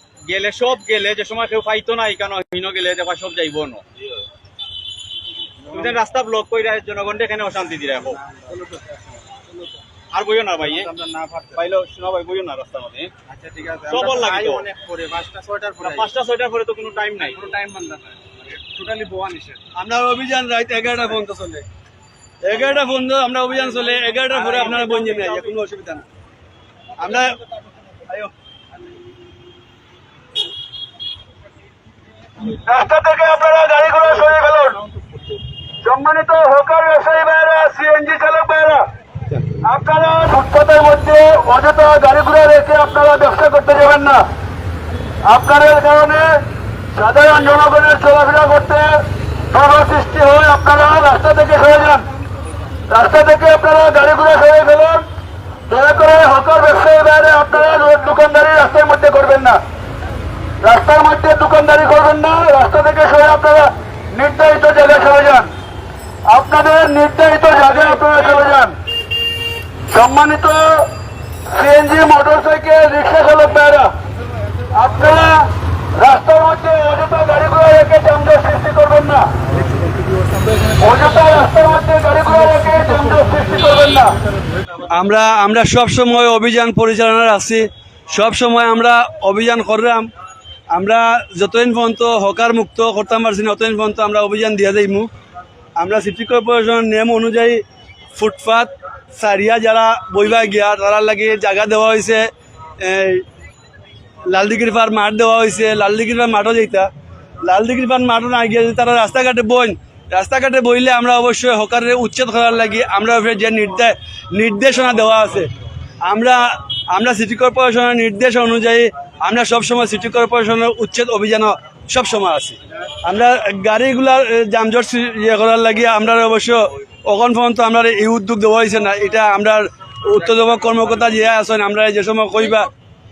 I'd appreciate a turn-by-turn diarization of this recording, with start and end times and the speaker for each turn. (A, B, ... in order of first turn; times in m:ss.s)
0:00.2-0:03.8 A
0:05.7-0:06.0 B
0:05.7-0:08.2 A
0:08.3-0:09.0 B
0:10.1-0:10.9 A
0:10.6-0:11.6 B
0:11.5-0:13.1 A
0:13.3-0:16.1 B
0:13.9-0:14.7 A
0:15.8-0:17.5 A
0:17.4-0:19.5 B
0:19.8-0:21.6 C
0:22.4-0:26.1 C
0:24.3-0:25.4 A
0:27.0-0:27.4 C
0:32.6-0:34.8 C
0:35.8-0:38.8 C
0:39.5-0:44.2 C
0:45.3-0:46.4 C
0:46.9-0:49.0 C
0:49.5-0:52.1 C
0:52.9-0:55.0 C
0:55.7-0:59.6 C
1:00.6-1:05.5 C
1:06.3-1:08.8 C
1:09.9-1:10.9 C
1:11.5-1:13.9 C
1:14.8-1:19.3 C
1:20.8-1:24.1 C
1:24.9-1:30.1 C
1:30.7-1:35.1 C
1:35.8-1:37.6 C
1:38.2-1:42.2 C
1:42.8-1:43.2 C
1:44.3-1:46.9 C
1:47.4-1:55.5 C
1:56.0-2:12.7 C